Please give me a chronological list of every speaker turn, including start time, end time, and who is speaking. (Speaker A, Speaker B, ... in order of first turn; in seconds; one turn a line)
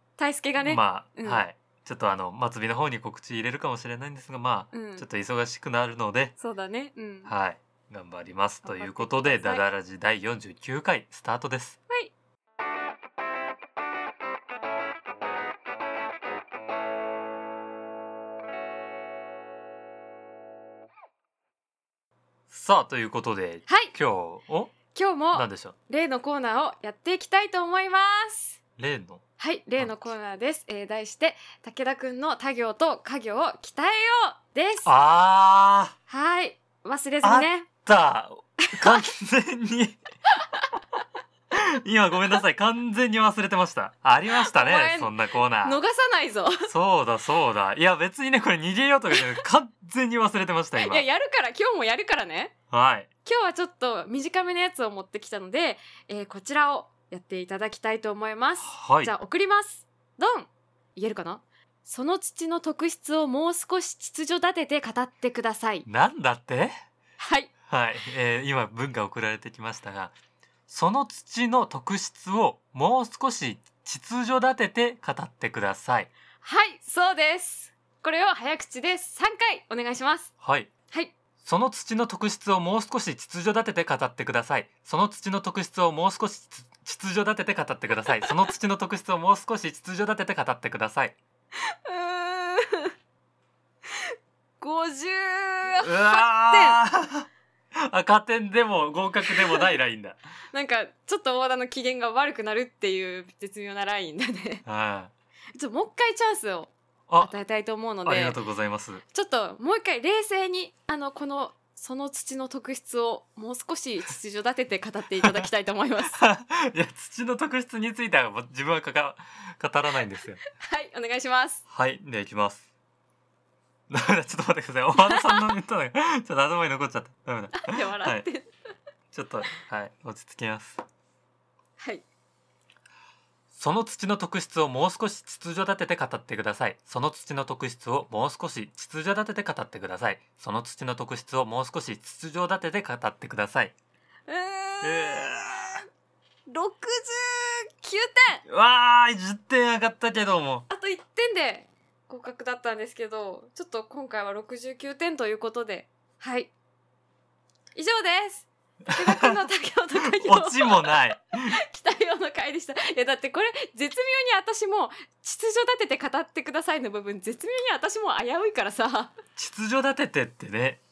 Speaker A: 0.2-1.4
Speaker B: 0.6-6.3
Speaker A: 4.7-5.0
Speaker A: 6.4-7.3
Speaker B: 7.2-11.8
Speaker A: 8.6-9.6
Speaker B: 22.5-24.8
Speaker A: 23.7-23.9
Speaker A: 24.9-28.6
Speaker B: 25.3-25.7
Speaker B: 28.8-29.2
Speaker A: 29.4-34.9
Speaker B: 29.8-30.1
Speaker B: 34.8-35.9
Speaker A: 36.1-37.7
Speaker B: 37.2-40.0
Speaker A: 38.6-39.1
Speaker A: 40.4-40.7
Speaker B: 41.5-45.8
Speaker A: 44.3-46.7
Speaker B: 46.7-51.0
Speaker A: 50.8-52.5
Speaker B: 52.7-53.1
Speaker A: 53.2-65.8
Speaker B: 58.6-59.1
Speaker B: 65.9-66.7
Speaker A: 67.2-67.5
Speaker B: 67.6-70.1
Speaker B: 70.7-76.1
Speaker A: 76.4-80.3
Speaker B: 80.4-80.7
Speaker B: 81.4-91.2
Speaker A: 91.7-92.9
Speaker A: 93.9-96.8
Speaker B: 95.8-100.2
Speaker A: 99.3-99.6
Speaker A: 100.5-104.6
Speaker B: 104.6-105.1
Speaker A: 105.5-108.4
Speaker B: 107.1-107.3
Speaker B: 108.0-109.0
Speaker A: 109.1-116.2
Speaker B: 116.1-120.4
Speaker A: 120.6-121.6
Speaker B: 121.7-122.7
Speaker B: 123.9-128.2
Speaker A: 125.0-125.4
Speaker A: 127.5-128.5
Speaker B: 129.1-130.8
Speaker A: 131.8-132.1
Speaker B: 133.5-143.7
Speaker A: 144.3-145.8
Speaker B: 144.8-145.8
Speaker A: 146.5-148.4
Speaker B: 148.5-150.7
Speaker A: 150.7-156.5
Speaker A: 157.7-169.2
Speaker B: 158.9-159.5
Speaker B: 160.2-161.6
Speaker B: 169.3-170.8